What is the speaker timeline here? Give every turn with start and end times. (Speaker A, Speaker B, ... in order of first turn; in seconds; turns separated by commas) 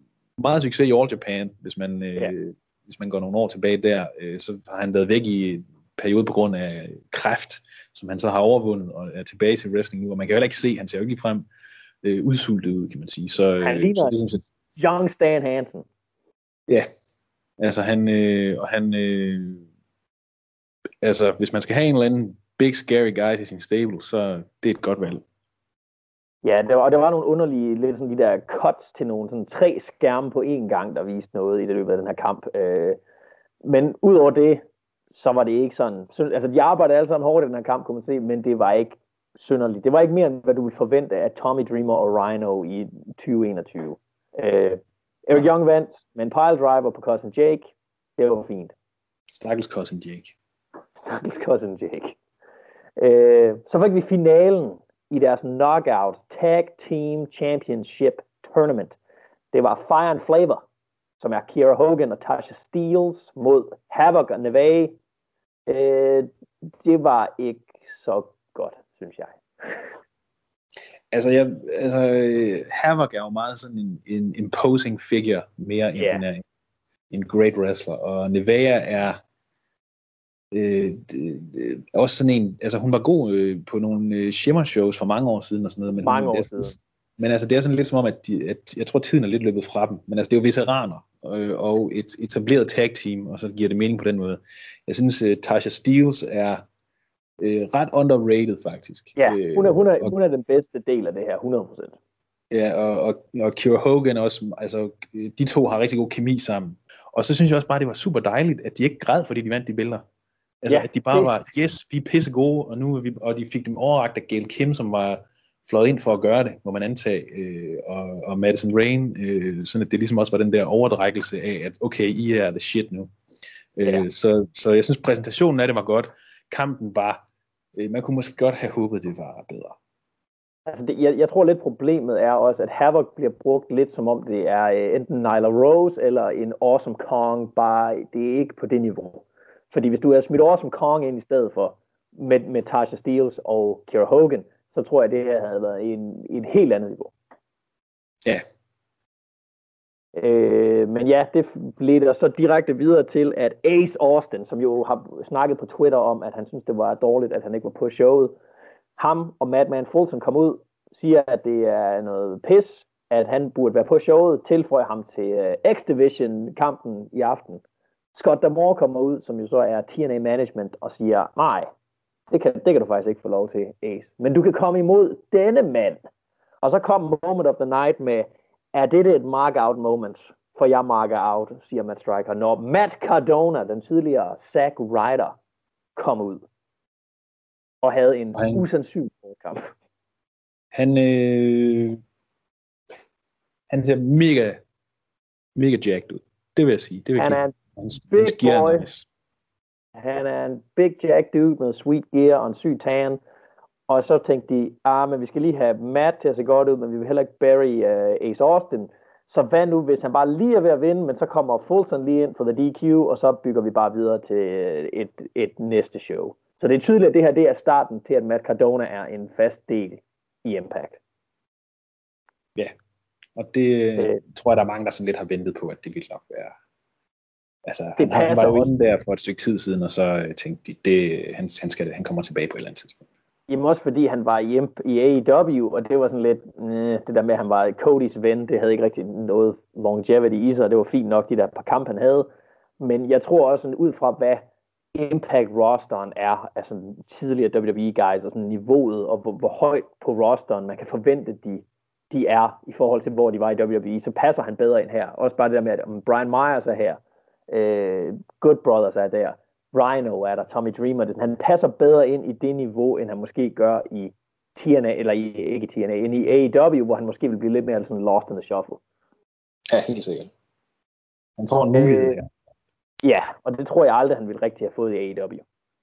Speaker A: 0.4-11.5, Speaker A: 12.0-14.4, Speaker B: 13.6-14.1, Speaker B: 14.8-15.9, Speaker A: 17.6-19.6, Speaker A: 21.0-25.2, Speaker B: 26.4-33.0, Speaker B: 33.6-34.6, Speaker B: 35.1-48.7, Speaker A: 49.3-50.3, Speaker B: 51.0-52.2, Speaker B: 53.0-59.0, Speaker B: 59.5-60.6, Speaker B: 61.2-64.9, Speaker B: 65.7-66.3, Speaker B: 66.8-69.9, Speaker A: 71.1-76.4, Speaker B: 76.0-76.2, Speaker A: 77.1-79.2, Speaker A: 80.5-96.6, Speaker B: 86.0-86.7, Speaker A: 97.4-100.1, Speaker B: 99.2-102.0, Speaker A: 102.5-110.0, Speaker A: 110.6-123.1, Speaker B: 110.7-111.3, Speaker A: 123.8-127.2, Speaker A: 127.8-129.7, Speaker B: 130.7-147.1, Speaker B: 150.1-158.4, Speaker B: 159.0-167.6, Speaker B: 168.1-171.7, Speaker B: 172.3-176.0, Speaker B: 176.6-185.3, Speaker B: 185.9-186.4, Speaker B: 187.8-189.7, Speaker A: 188.3-188.6, Speaker A: 190.7-192.0, Speaker A: 193.7-194.6, Speaker A: 195.6-199.1, Speaker B: 197.2-197.5, Speaker B: 198.1-198.9, Speaker B: 199.9-203.2, Speaker B: 203.9-221.0, Speaker A: 223.4-226.5, Speaker A: 227.7-233.0, Speaker B: 228.0-228.7, Speaker B: 233.5-242.3, Speaker B: 242.8-268.8, Speaker A: 269.7-270.3, Speaker A: 271.4-272.3, Speaker B: 271.7-272.2, Speaker B: 273.0-275.4